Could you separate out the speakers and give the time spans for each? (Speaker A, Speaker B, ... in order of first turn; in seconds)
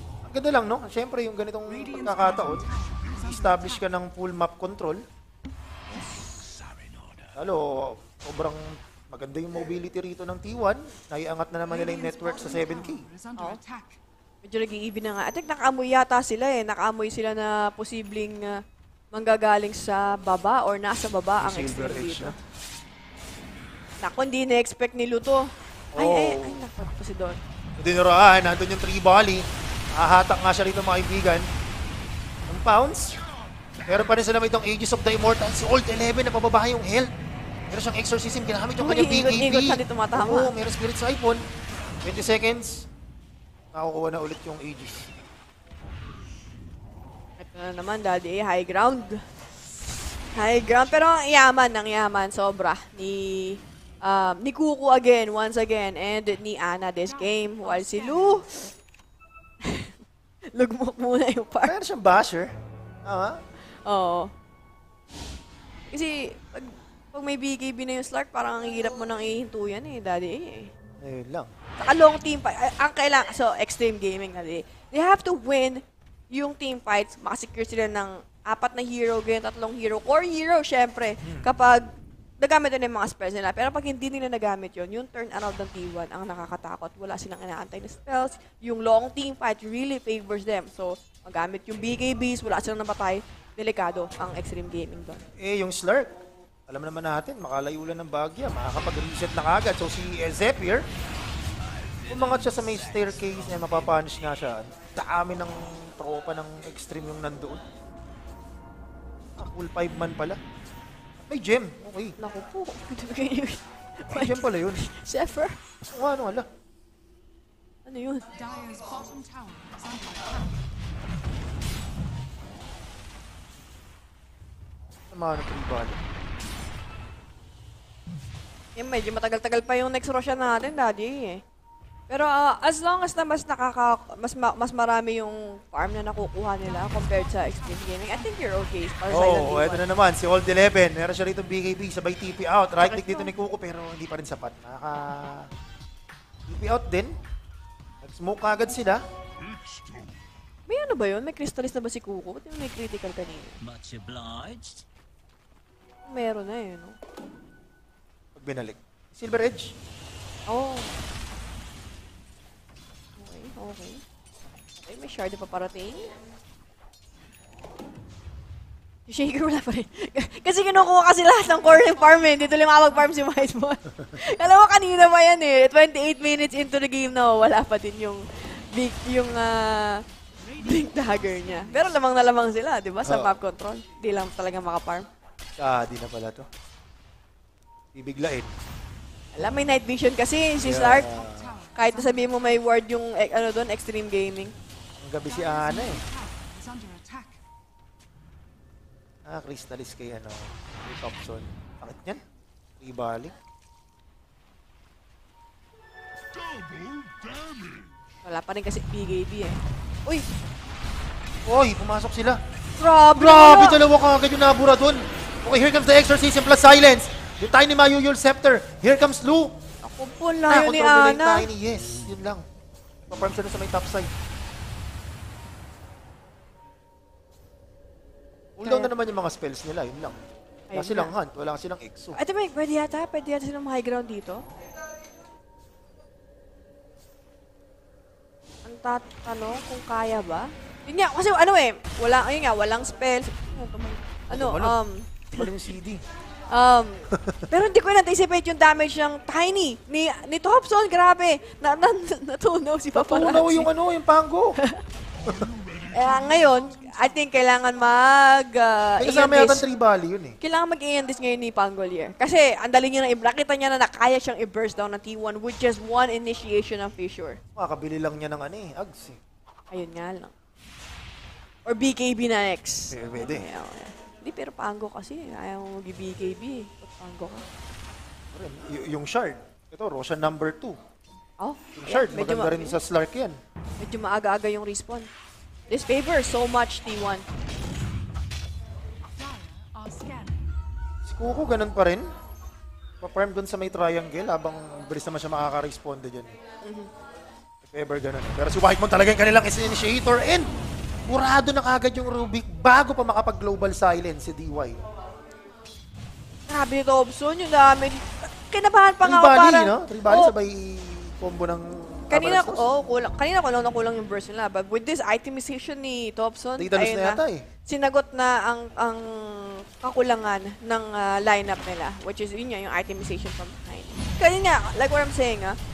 Speaker A: 0.3-5.0, 7.3-13.0, 21.4-22.4, 25.9-26.6, 27.8-31.4, 32.5-33.2, 33.8-37.1, 37.7-41.4, 42.0-42.9, 43.7-45.1, 61.6-62.5, 63.0-63.4, 71.0-71.5, 81.2-81.5, 95.4-96.1, 96.7-100.8, 102.1-107.6, 109.4-110.4, 111.2-112.2, 114.1-114.8, 115.9-116.5, 125.1-126.0, 139.1-145.5, 146.5-147.1, 148.0-149.0, 158.3-159.7, 183.1-183.3, 185.6-186.5, 187.9-188.5, 190.6-191.5, 195.0-196.0, 199.2-202.2, 202.8-203.3, 211.5-212.4, 213.1-219.5, 220.5-222.4, 223.1-224.1, 228.6-230.2, 230.7-232.2, 244.3-244.8, 245.3-246.0, 247.1-247.4, 252.9-254.6, 259.0-260.4, 267.6-269.2, 272.9-273.5, 278.3-280.8, 281.8-283.4, 291.1-292.1, 293.0-296.3, 297.6-300.5, 301.1-304.8, 309.0-312.6, 316.6-317.4
Speaker B: 1.6-3.9, 11.7-14.0, 57.1-58.6, 118.3-120.6, 136.6-139.0, 171.9-173.2, 180.4-182.2, 190.8-192.6, 195.2-197.4, 255.3-257.8, 289.1-290.6
Speaker C: 5.9-6.2, 14.4-18.6, 19.1-22.3, 24.0-27.4, 38.8-40.5, 47.4-49.2, 50.3-58.5, 59.6-59.9, 60.5-61.8, 63.8-64.3, 65.9-70.7, 71.8-81.9, 82.4-95.2, 112.2-115.6, 117.8-118.3, 128.8-131.4, 132.1-139.8, 142.8-143.3, 150.7-153.6, 156.1-157.0, 160.5-160.9, 163.2-164.0, 164.8-166.1, 169.1-180.0, 180.6-185.1, 189.3-191.1, 191.7-194.5, 208.2-210.2, 212.8-213.8, 219.8-221.5, 228.6-228.9, 230.7-231.1, 232.1-234.4, 238.6-245.5, 246.5-253.7, 254.6-254.8, 255.9-259.6, 260.4-267.4, 269.7-270.3, 271.6-277.4, 281.4-282.8, 283.8-285.1, 285.7-287.2, 306.5-310.3, 312.1-325.6
Speaker D: 6.5-7.3, 101.6-104.1, 153.6-154.8